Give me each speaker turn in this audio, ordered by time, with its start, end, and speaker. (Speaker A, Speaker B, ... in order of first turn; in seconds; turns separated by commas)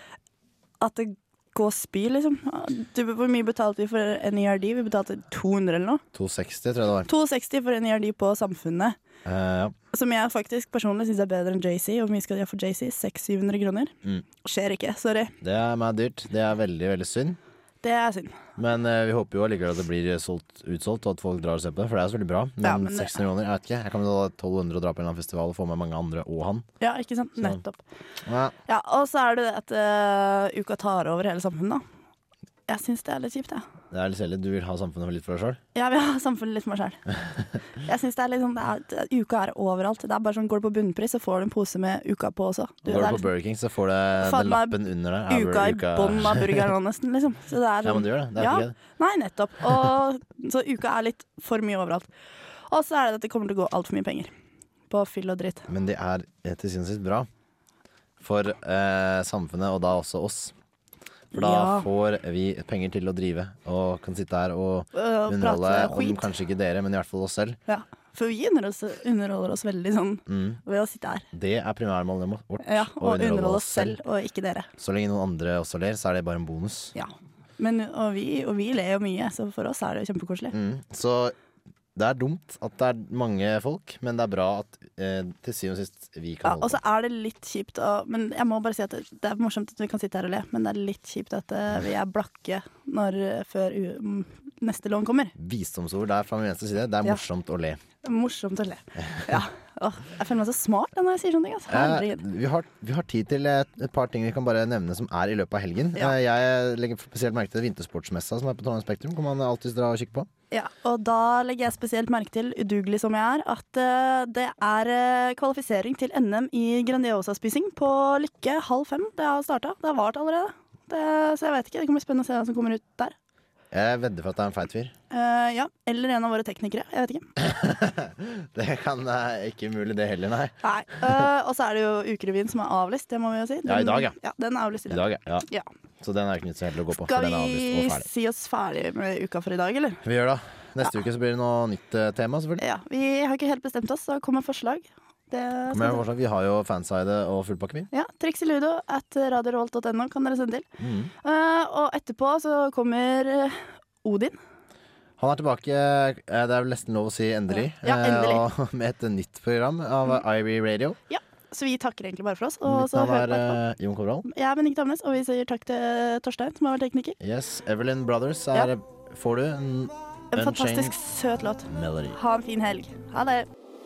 Speaker A: 0.8-6.0, Speaker B: 6.1-7.1, Speaker A: 7.1-9.0, Speaker B: 9.2-9.7, Speaker A: 9.9-15.3, Speaker B: 15.4-17.4, Speaker A: 17.8-18.4, Speaker B: 18.6-26.6, Speaker A: 22.6-23.2, Speaker A: 26.8-27.8, Speaker B: 28.3-28.5, Speaker A: 28.7-31.8, Speaker A: 32.7-33.6, Speaker B: 33.9-35.6, Speaker A: 35.8-37.0, Speaker A: 37.8-43.3, Speaker B: 42.9-46.7, Speaker A: 44.2-52.1, Speaker B: 47.8-48.8, Speaker A: 52.7-54.3, Speaker A: 54.9-55.7, Speaker B: 55.7-57.3, Speaker B: 58.2-60.5, Speaker B: 61.3-67.6, Speaker A: 61.3-61.9, Speaker A: 64.9-66.2, Speaker A: 67.7-71.3, Speaker B: 70.3-70.6, Speaker B: 71.3-74.0, Speaker A: 72.6-74.7, Speaker B: 74.8-76.9, Speaker A: 77.0-80.5, Speaker B: 80.5-81.3, Speaker B: 82.0-86.8, Speaker A: 86.4-95.3, Speaker B: 95.4-97.8, Speaker A: 98.0-102.2, Speaker B: 99.1-99.4, Speaker B: 101.7-110.3, Speaker A: 110.5-123.2, Speaker B: 123.7-124.9, Speaker A: 125.1-127.3, Speaker B: 127.4-131.3, Speaker A: 130.6-135.7, Speaker B: 133.7-134.1, Speaker B: 134.9-135.5, Speaker B: 136.0-138.1, Speaker A: 136.9-140.0, Speaker B: 140.0-142.6, Speaker A: 142.6-146.0, Speaker B: 145.7-147.9, Speaker A: 147.9-150.7, Speaker B: 150.8-151.1, Speaker A: 151.2-154.4, Speaker B: 155.2-161.0, Speaker A: 157.5-158.4, Speaker A: 161.1-163.6, Speaker B: 162.7-164.3, Speaker A: 164.3-167.2, Speaker B: 167.2-170.9, Speaker A: 170.3-173.5, Speaker B: 171.7-172.2